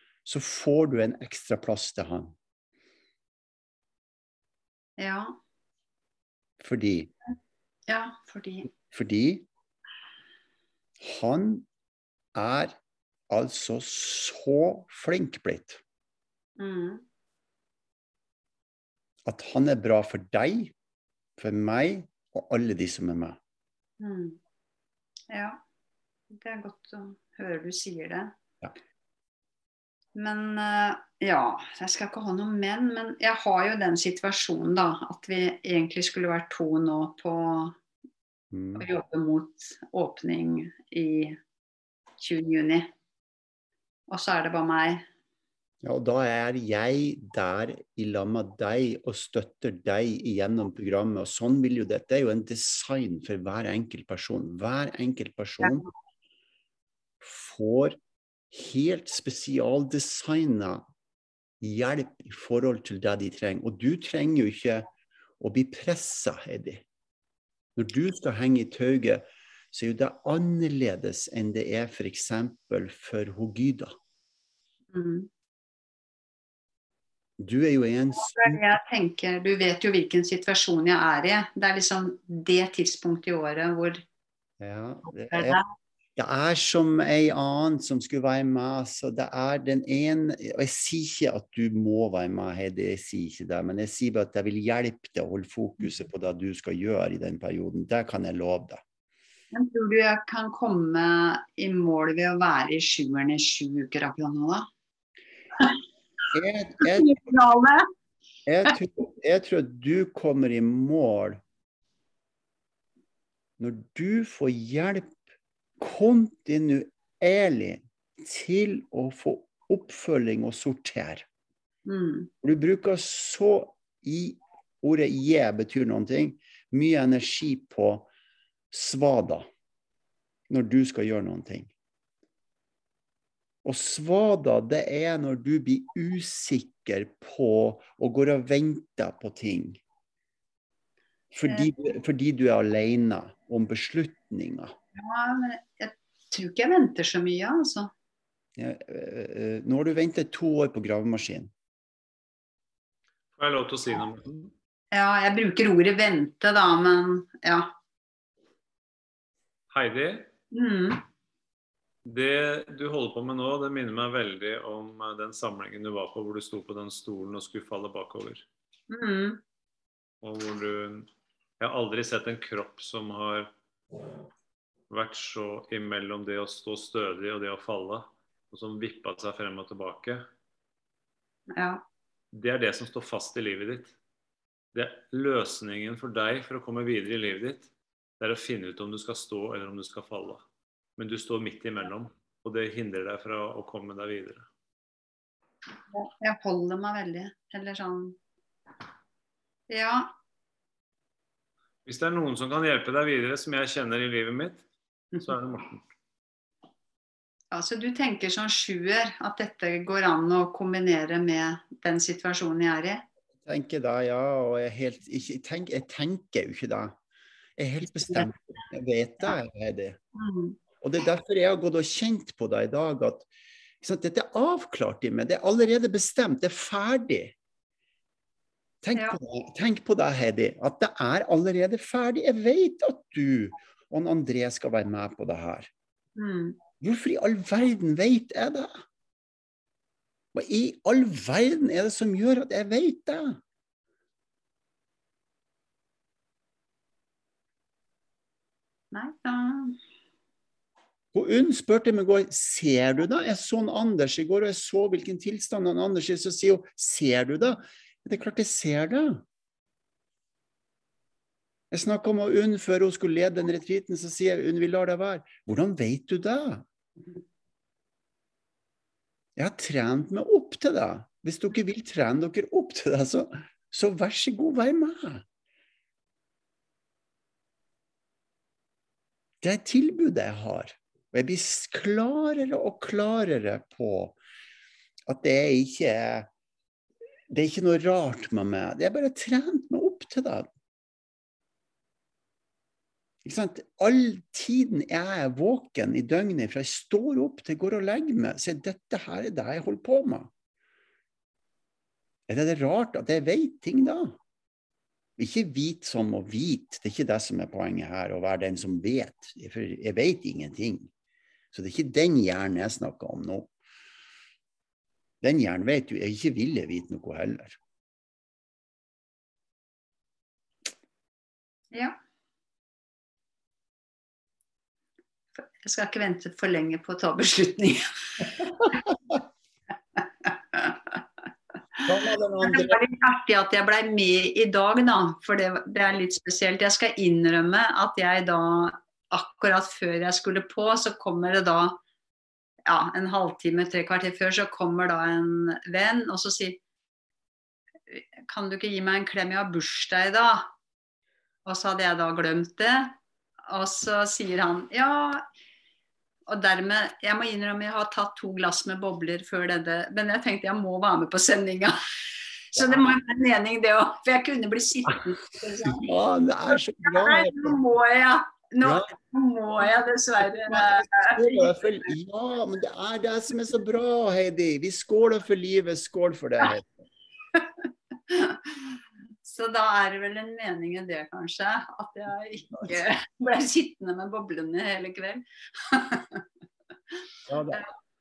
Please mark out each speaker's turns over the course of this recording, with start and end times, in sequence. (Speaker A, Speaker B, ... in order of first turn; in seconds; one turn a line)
Speaker A: 0.2-2.3
Speaker B: 5.0-5.4
Speaker A: 6.6-7.1
Speaker B: 7.9-8.7
Speaker A: 8.9-9.5
Speaker A: 11.0-11.7
Speaker A: 12.3-12.8
Speaker A: 13.3-15.8
Speaker B: 16.6-17.0
Speaker A: 19.3-20.7
Speaker A: 21.4-23.4
Speaker B: 24.0-24.4
Speaker B: 25.3-25.6
Speaker B: 26.3-28.4
Speaker B: 30.1-37.8
Speaker A: 38.5-38.9
Speaker B: 38.8-41.4
Speaker B: 42.2-42.9
Speaker B: 44.1-45.1
Speaker A: 45.8-55.9
Speaker A: 57.2-58.0
Speaker A: 58.5-60.8
Speaker A: 61.6-64.9
Speaker A: 65.4-66.8
Speaker A: 67.8-74.0
Speaker B: 74.9-75.3
Speaker A: 77.4-78.7
Speaker B: 78.2-84.0
Speaker A: 84.6-85.6
Speaker B: 85.3-85.6
Speaker A: 86.2-98.8
Speaker B: 99.5-104.7
Speaker A: 106.3-107.1
Speaker B: 106.8-107.8
Speaker A: 108.5-111.4
Speaker A: 113.6-115.1
Speaker A: 115.8-121.3
Speaker B: 121.9-122.3
Speaker A: 122.4-128.1
Speaker A: 128.7-129.5
Speaker A: 130.5-131.7
Speaker A: 133.6-139.8
Speaker A: 141.3-144.8
Speaker B: 141.5-141.7
Speaker B: 145.0-147.9
Speaker A: 148.6-151.5
Speaker C: 153.4-154.5
Speaker B: 154.9-157.7
Speaker C: 159.7-160.3
Speaker B: 160.5-161.0
Speaker C: 162.1-168.4
Speaker B: 168.9-169.4
Speaker C: 170.2-171.1
Speaker C: 171.6-173.5
Speaker C: 174.9-180.2
Speaker B: 181.5-181.8
Speaker C: 182.3-183.9
Speaker C: 184.7-190.4
Speaker C: 191.0-194.5
Speaker B: 195.9-198.2
Speaker B: 199.7-200.1
Speaker C: 201.8-204.6
Speaker C: 205.2-205.8
Speaker B: 207.5-213.1
Speaker A: 213.5-217.0
Speaker A: 217.6-220.0
Speaker B: 220.2-220.6
Speaker A: 220.8-223.3
Speaker A: 223.8-227.3
Speaker A: 228.8-235.7
Speaker B: 236.2-236.6
Speaker A: 236.8-238.7
Speaker A: 240.3-243.4
Speaker B: 248.9-249.8
Speaker A: 251.1-259.2
Speaker A: 261.7-266.7
Speaker A: 269.4-275.2
Speaker A: 279.4-284.2
Speaker A: 285.1-286.3
Speaker A: 287.3-290.5
Speaker A: 293.2-300.3
Speaker A: 302.3-304.2
Speaker A: 305.2-310.9
Speaker A: 311.5-313.5
Speaker A: 315.2-317.6
Speaker B: 321.7-322.0
Speaker B: 325.6-328.8
Speaker B: 330.2-331.0
Speaker A: 331.9-332.8
Speaker B: 332.4-341.8
Speaker B: 342.7-346.6
Speaker B: 347.9-350.5
Speaker B: 351.4-353.0
Speaker B: 353.5-355.2
Speaker B: 356.3-361.8
Speaker B: 362.5-365.8
Speaker A: 362.6-362.9
Speaker A: 365.6-367.6
Speaker B: 366.8-371.4
Speaker A: 368.6-368.9
Speaker A: 370.5-376.8
Speaker B: 378.1-378.6
Speaker B: 379.2-386.2
Speaker A: 387.3-387.6